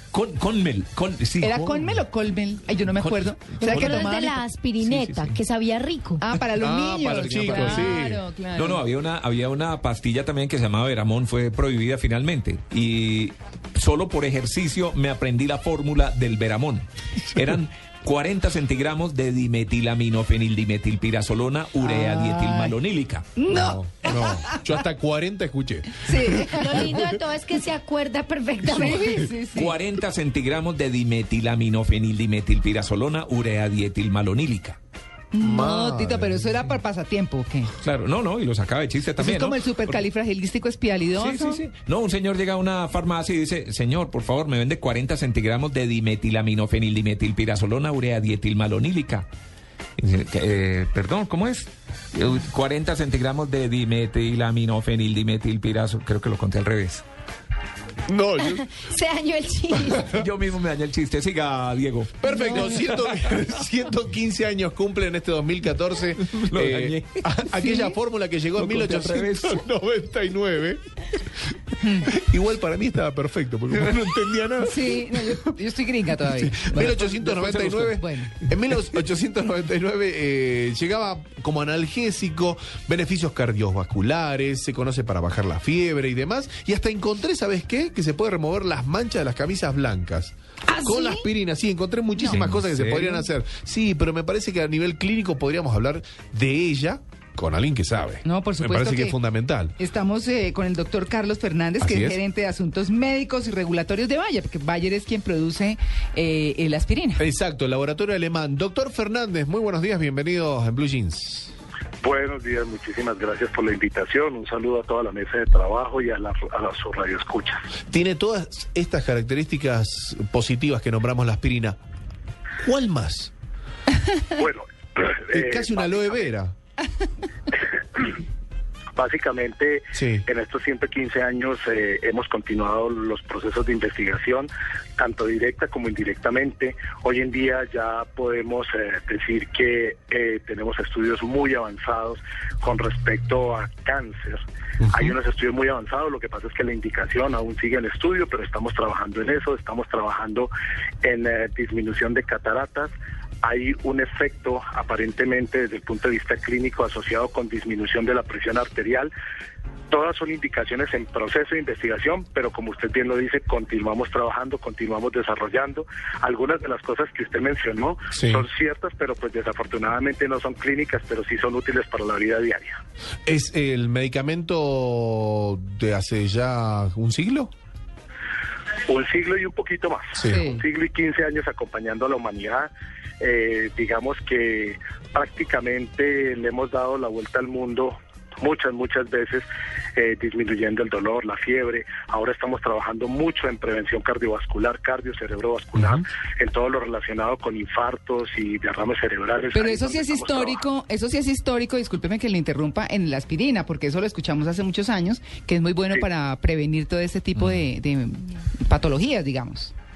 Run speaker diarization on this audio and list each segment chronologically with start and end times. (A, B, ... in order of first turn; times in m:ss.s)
0:00.1-0:02.0 A
0:01.4-0:04.4 B
0:03.0-0:04.2 A
0:03.6-0:06.2 C
0:04.8-0:05.4 A
0:06.2-0:08.8 B
0:06.6-0:08.2 D
0:07.1-0:23.3 A
0:21.8-0:22.7 B
0:23.4-0:24.6 B
0:23.5-0:27.2 D
0:26.0-0:26.9 B
0:26.5-0:29.3 C
0:28.8-0:29.8 B
0:29.5-0:34.8 A
0:35.3-0:37.7 B
0:35.4-0:36.5 D
0:37.8-0:40.0 A
0:39.2-0:41.6 B
0:41.1-0:49.3 A
0:50.0-0:57.0 A
0:58.1-0:58.7 D
0:58.4-1:00.1 C
0:59.7-1:00.2 D
0:59.9-1:03.4 A
1:02.2-1:11.2 D
1:02.4-1:02.7 C
1:06.3-1:07.7 A
1:08.5-1:09.6 A
1:11.8-1:12.1 B
1:12.0-1:15.4 D
1:14.6-1:18.3 B
1:16.3-1:39.8 D
1:16.8-1:17.9 A
1:30.7-1:31.2 B
1:32.4-1:33.0 A
1:38.2-1:39.2 B
1:39.8-1:47.2 B
1:41.8-1:42.2 D
1:47.2-1:51.5 D
1:52.0-1:57.6 E
1:57.9-2:01.8 D
2:02.6-2:03.3 D
2:04.3-2:06.3 E
2:05.3-2:06.5 D
2:09.0-2:24.4 E
2:09.9-2:10.2 D
2:24.8-2:25.1 D
2:24.9-2:30.5 E
2:31.0-2:32.9 E
2:33.4-2:39.1 E
2:39.9-2:52.8 E
2:48.1-2:48.4 D
2:53.2-2:57.5 D
2:58.9-3:20.6 E
3:00.3-3:00.6 B
3:19.5-3:29.7 B